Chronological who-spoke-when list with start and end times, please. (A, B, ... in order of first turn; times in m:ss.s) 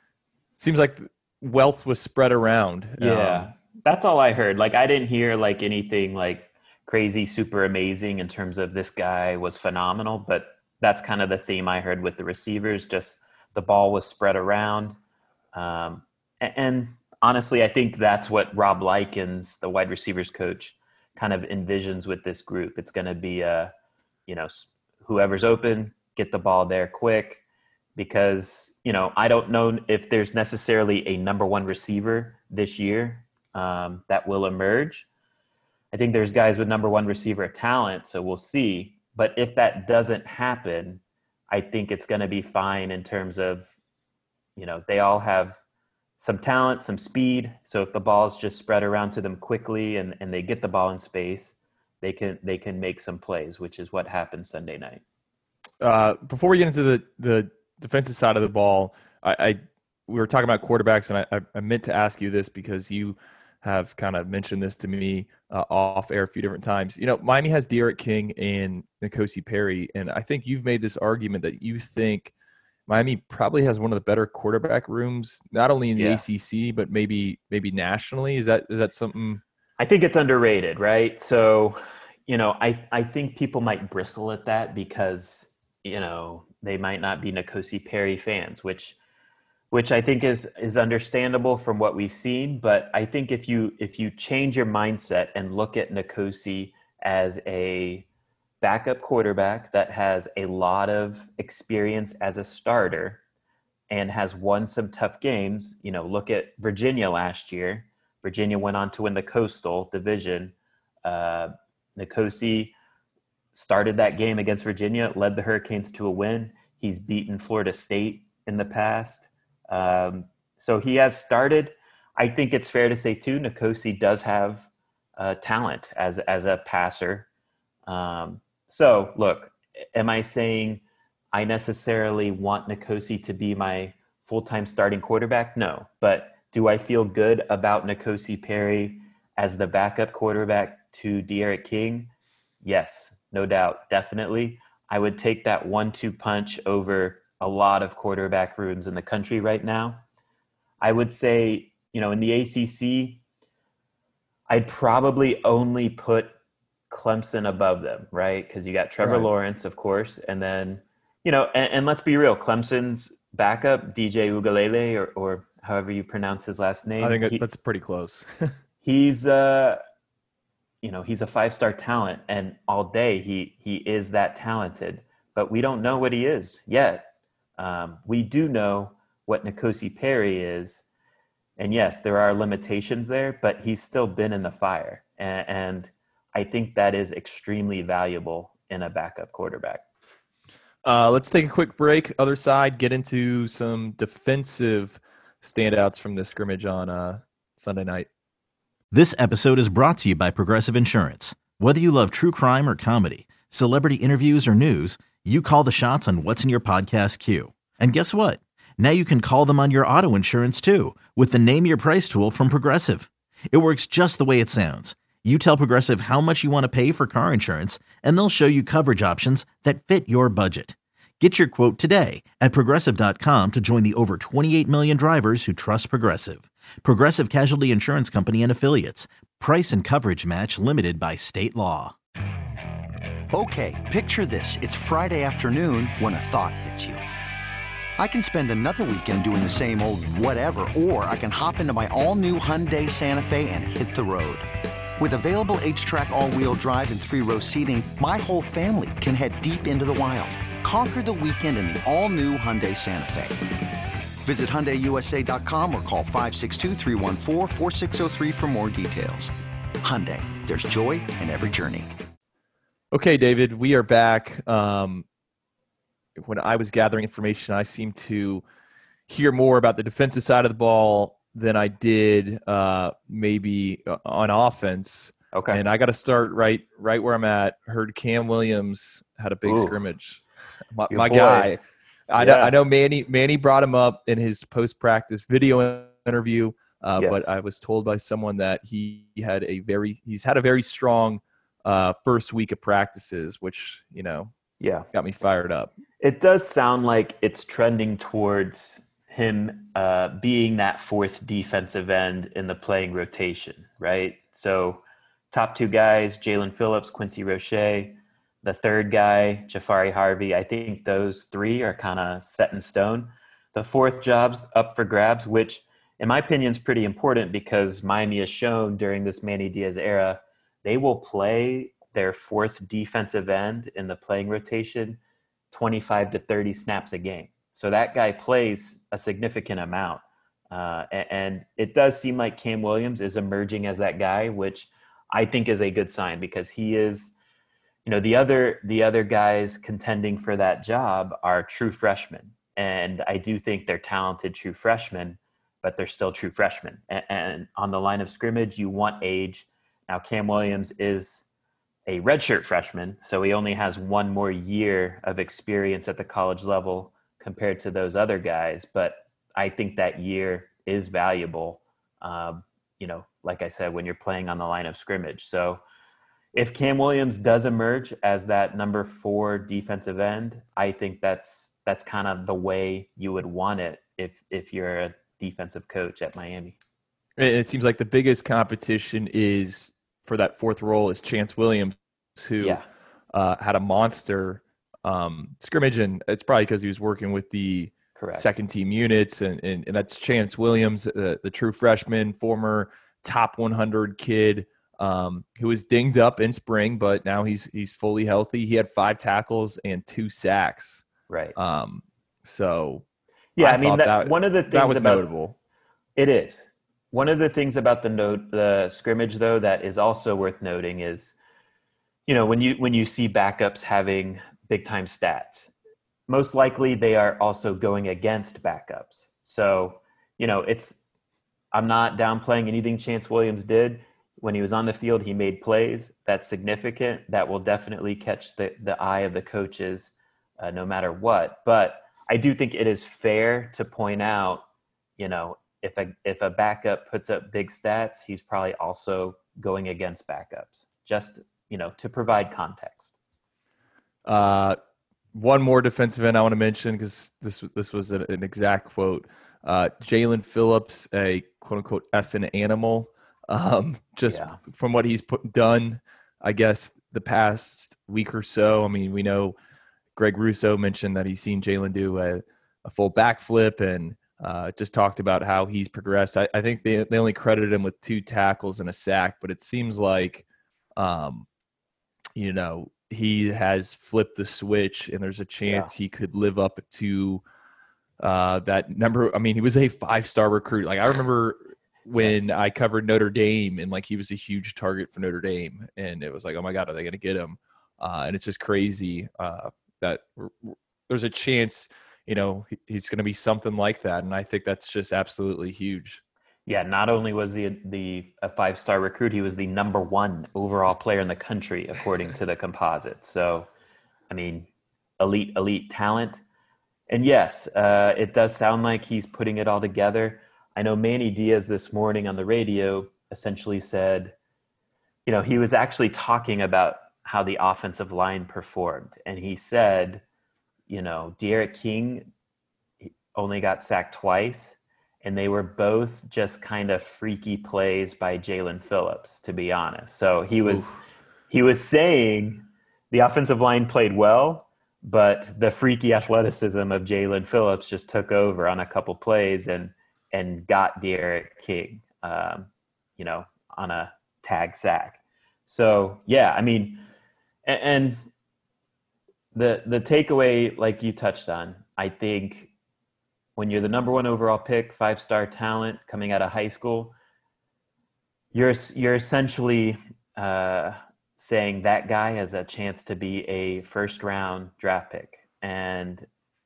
0:00.6-0:03.5 A
0:03.0-0:15.0 B
0:15.5-0:23.7 B
0:24.3-0:27.4 B
0:28.0-0:35.1 B
0:35.9-0:43.7 B
0:44.6-0:45.6 B
0:46.2-0:55.0 B
0:55.8-1:12.3 A
1:12.9-1:19.4 A
1:16.0-1:16.2 B
1:19.8-1:29.0 B
1:29.7-1:38.0 B
1:38.6-1:43.2 B
1:43.9-1:52.7 B
1:53.5-2:07.3 B
2:07.9-2:22.1 B
2:22.6-2:30.0 B
2:30.8-2:33.2 B
2:34.5-2:36.4 B
2:36.9-2:47.4 B
2:39.0-2:39.3 A
2:47.0-2:48.6 A
2:48.8-2:49.8 B
2:50.8-2:57.0 B
2:57.6-3:00.8 B
3:01.6-3:09.8 B
3:10.8-3:18.1 A
3:18.9-3:51.9 C
3:53.3-3:57.0 D
3:58.0-4:13.4 D
4:14.2-4:21.9 D
4:22.9-4:25.0 A
4:26.2-4:28.4 A
4:29.1-4:40.2 A
4:35.3-4:35.6 B
4:39.4-4:39.7 B
4:40.7-4:54.3 A
4:40.9-4:41.5 B
4:42.2-4:42.5 B
4:47.0-4:47.3 B
4:54.6-4:54.9 B
4:54.9-4:55.7 A
4:56.0-5:25.0 B
5:25.5-5:37.2 B
5:37.8-5:51.3 B
5:51.9-6:05.6 B
6:06.3-6:16.6 B
6:17.2-6:22.6 A
6:22.4-6:22.6 B
6:23.1-6:42.8 A
6:28.0-6:28.3 B
6:41.1-6:41.4 B
6:43.4-6:45.1 B
6:43.4-6:45.4 A
6:46.0-6:51.2 B
6:52.1-6:55.5 B
6:56.1-7:00.8 B
7:01.5-7:14.4 B
7:15.0-7:22.9 B
7:24.0-7:24.6 A
7:25.1-7:39.3 A
7:34.0-7:34.4 B
7:40.0-7:50.2 A
7:50.8-7:51.2 A
7:52.2-7:57.2 A
7:58.0-8:16.0 A
8:02.0-8:02.3 B
8:16.5-8:23.5 B
8:24.1-8:26.2 B
8:26.9-8:34.1 B
8:35.0-8:40.0 B
8:40.7-8:42.1 B
8:42.8-9:06.8 B
9:07.4-9:08.0 B
9:09.3-9:12.5 B
9:13.4-9:16.9 B
9:18.3-9:26.1 B